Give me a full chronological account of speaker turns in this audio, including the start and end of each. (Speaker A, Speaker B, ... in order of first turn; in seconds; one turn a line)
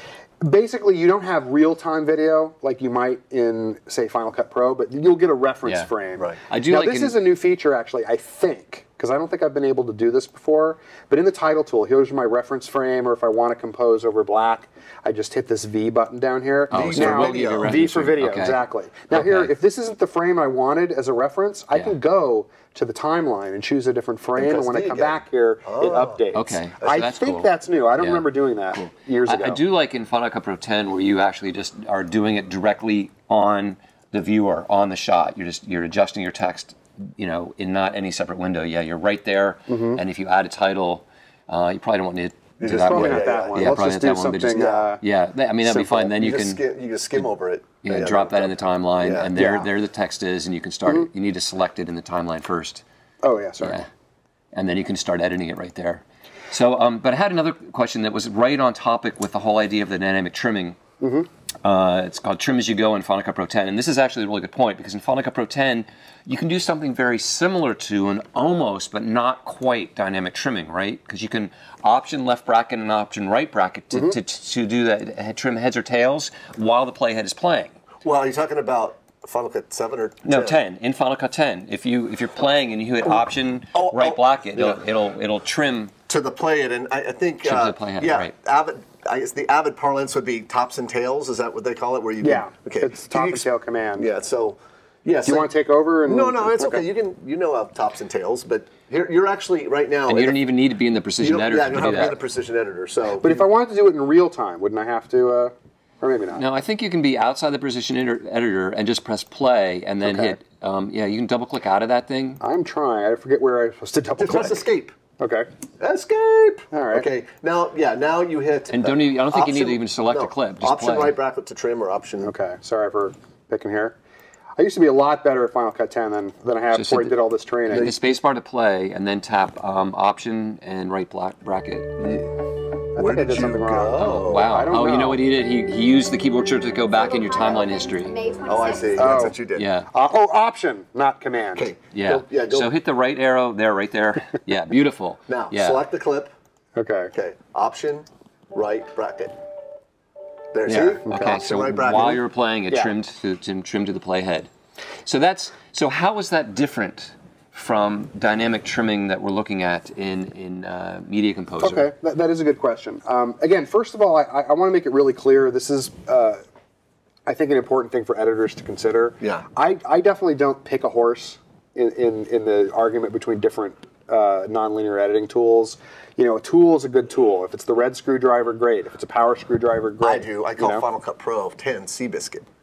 Speaker A: 0.4-29.6
Speaker B: 6.5-7.2
Speaker B: 16.7-18.6
Speaker C: 16.7-17.8
Speaker B: 19.1-19.5
Speaker C: 24.4-26.2
Speaker B: 26.3-46.6
Speaker A: 39.7-40.0
Speaker C: 42.6-43.7
Speaker A: 42.7-45.0
Speaker C: 44.5-44.9
Speaker A: 45.6-46.1
Speaker C: 46.1-49.3
Speaker B: 47.8-52.8
Speaker A: 49.4-49.7
Speaker A: 53.2-53.8
Speaker B: 53.6-53.9
Speaker B: 54.5-60.8
Speaker A: 61.0-61.3
Speaker B: 61.6-77.7
Speaker C: 78.0-80.6
Speaker B: 80.2-85.9
Speaker C: 83.7-84.8
Speaker C: 86.1-95.5
Speaker B: 87.4-88.3
Speaker A: 92.2-94.1
Speaker A: 95.2-96.8
Speaker C: 96.0-100.4
Speaker B: 100.1-102.2
Speaker C: 101.2-103.4
Speaker A: 103.2-106.4
Speaker B: 106.3-112.4
Speaker A: 110.0-110.3
Speaker A: 112.4-114.7
Speaker C: 114.2-114.9
Speaker A: 115.2-115.5
Speaker C: 115.8-122.3
Speaker A: 116.7-117.1
Speaker B: 118.7-121.2
Speaker A: 122.2-123.9
Speaker A: 124.6-128.0
Speaker B: 126.7-132.1
Speaker C: 132.0-132.4
Speaker C: 132.9-134.7
Speaker A: 132.9-135.2
Speaker B: 133.9-138.4
Speaker C: 138.4-139.7
Speaker A: 138.9-139.4
Speaker B: 139.5-139.9
Speaker A: 139.9-141.7
Speaker C: 141.5-142.7
Speaker B: 141.9-145.8
Speaker C: 145.3-146.3
Speaker A: 146.8-147.1
Speaker C: 147.1-149.4
Speaker C: 150.5-152.2
Speaker B: 150.7-154.5
Speaker A: 150.7-151.3
Speaker B: 155.1-161.9
Speaker A: 161.6-166.4
Speaker A: 167.2-180.8
Speaker C: 180.0-182.4